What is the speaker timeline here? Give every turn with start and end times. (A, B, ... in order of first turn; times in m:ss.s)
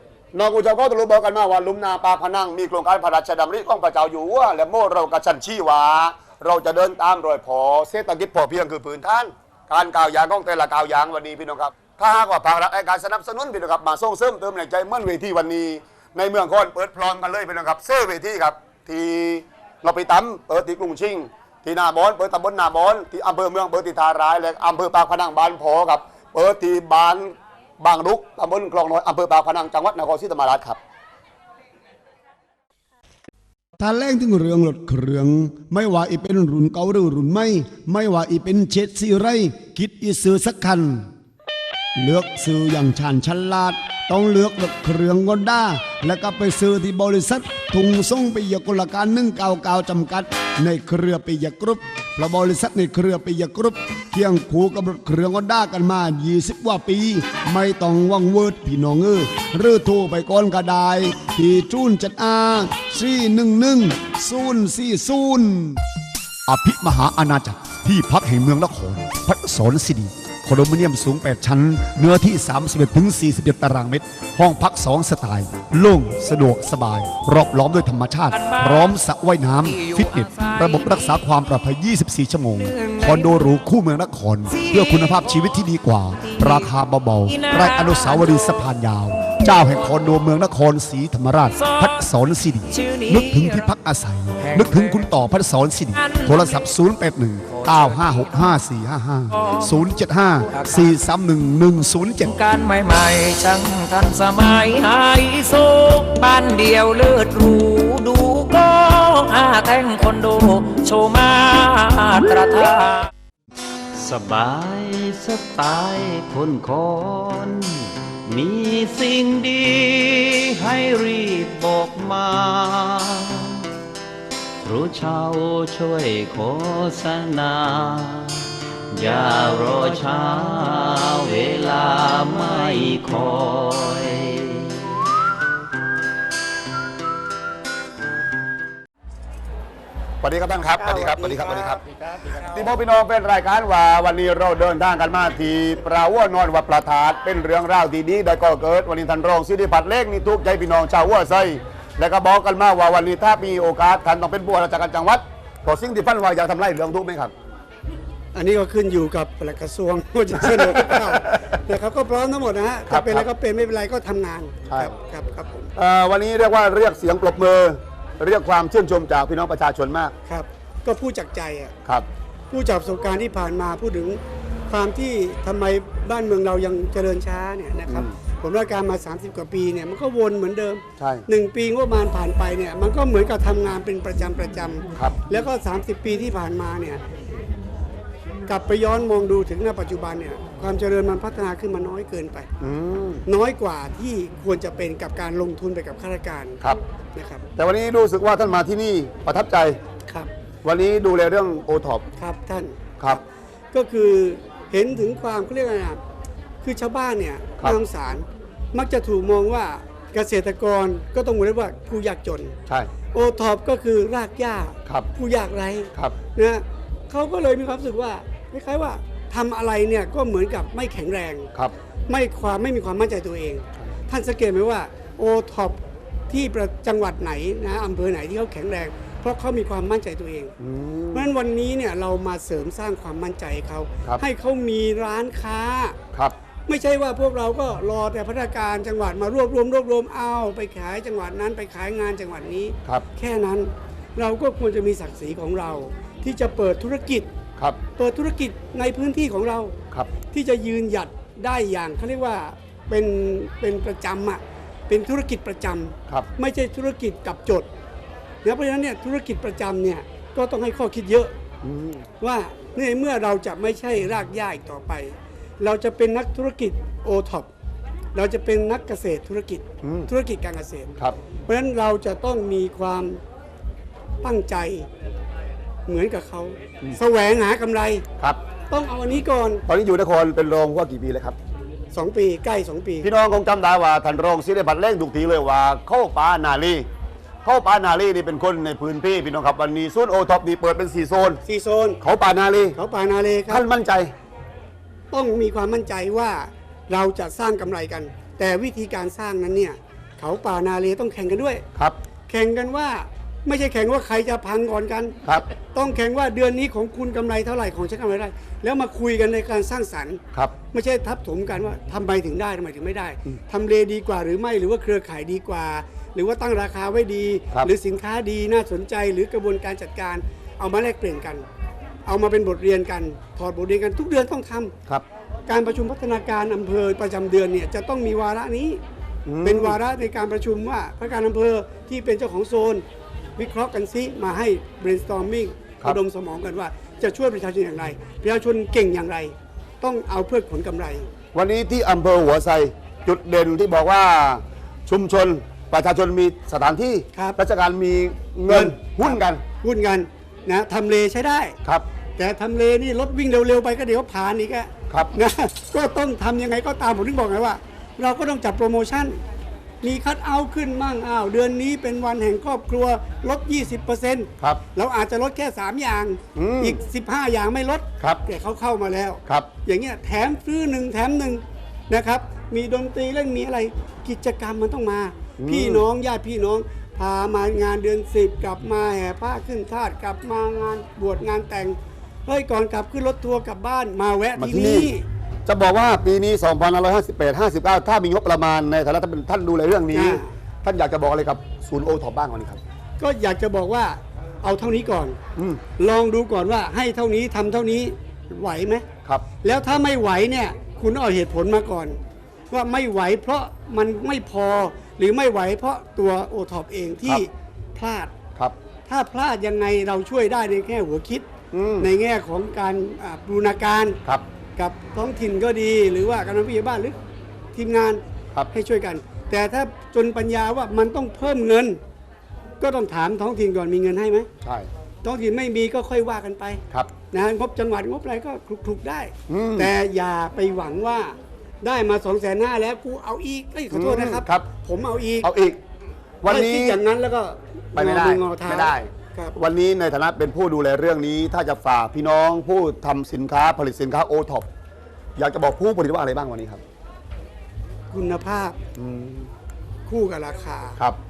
0:00.3-0:30.8 A
0:33.8-0:41.1 B
0:42.0-1:05.8 B
1:06.5-1:42.4 B
1:18.4-1:18.8 C
1:19.7-1:21.0 C
1:24.6-1:25.1 C
1:26.3-1:26.6 C
1:27.3-1:28.4 C
1:31.6-1:31.9 C
1:32.8-1:33.6 C
1:36.0-1:36.3 C
1:39.4-1:39.7 C
1:42.4-1:53.0 C
1:53.9-2:03.5 D
2:04.6-2:08.4 D
2:08.9-2:14.8 D
2:20.2-2:21.8 A
2:20.7-2:22.7 E
2:22.5-2:37.3 A
2:38.3-2:45.7 E
2:40.6-2:41.3 A
2:42.9-2:43.3 A
2:44.7-2:44.9 A
2:45.8-2:50.1 A
2:50.2-2:51.7 E
2:52.5-3:07.0 E
2:57.9-2:58.1 A
3:01.0-3:01.2 A
3:05.0-3:05.2 A
3:08.5-3:12.5 E
3:12.6-3:13.2 A
3:13.2-3:16.6 E
3:17.1-3:17.4 E
3:17.6-3:19.8 A
3:20.6-3:22.1 A
3:22.2-3:22.8 E
3:23.7-3:26.0 E
3:26.6-3:32.6 E
3:33.1-3:41.5 E
3:42.1-3:50.5 E
3:50.6-3:51.3 A
3:51.1-3:56.0 E
3:56.7-4:07.3 E
4:08.0-4:09.8 E
4:10.3-4:17.7 E
4:18.4-4:21.3 E
4:21.6-4:22.0 A
4:22.2-4:27.5 E
4:28.1-4:30.9 E
4:29.8-4:30.1 A
4:31.5-4:33.2 E
4:34.2-4:34.9 E
4:35.9-4:38.0 E
4:38.7-4:39.6 E
4:39.7-4:41.4 A
4:41.9-4:43.1 E
4:43.0-4:46.8 A
4:47.4-4:51.4 A
4:51.4-4:52.0 E
4:52.0-4:52.8 A
4:52.7-4:53.6 E
4:53.5-4:54.1 A
4:55.1-5:01.6 E
5:02.3-5:05.2 E
5:05.7-5:21.5 E
5:22.0-5:24.7 E
5:25.5-5:28.8 E
5:29.2-5:29.8 A
5:29.4-5:32.8 E
5:33.4-5:41.1 E
5:41.3-5:49.4 A
5:48.5-5:51.6 E
5:52.2-5:59.2 E
5:54.9-5:55.1 A
5:59.8-6:25.0 E
6:06.4-6:06.8 A
6:15.4-6:15.8 A
6:24.4-6:24.9 A
6:25.4-6:32.6 A
6:29.9-6:30.3 E
6:33.0-6:35.2 E
6:35.4-6:35.6 A
6:35.8-6:38.8 E
6:39.4-6:42.0 E
6:42.5-6:48.1 E
6:48.9-6:51.3 E
6:51.5-6:51.9 A
6:51.8-6:54.0 E
6:54.6-6:57.0 E
6:57.5-6:58.0 E
6:58.5-7:01.8 E
7:02.6-7:04.3 E
7:04.4-7:04.7 A
7:05.0-7:15.3 E
7:09.3-7:09.7 A
7:13.7-7:14.5 A
7:15.2-7:15.6 A
7:16.2-7:16.8 A
7:16.3-7:19.3 E
7:17.7-7:24.5 A
7:25.2-7:26.6 A
7:27.9-7:28.6 E
7:28.8-7:29.3 A
7:29.9-7:30.8 E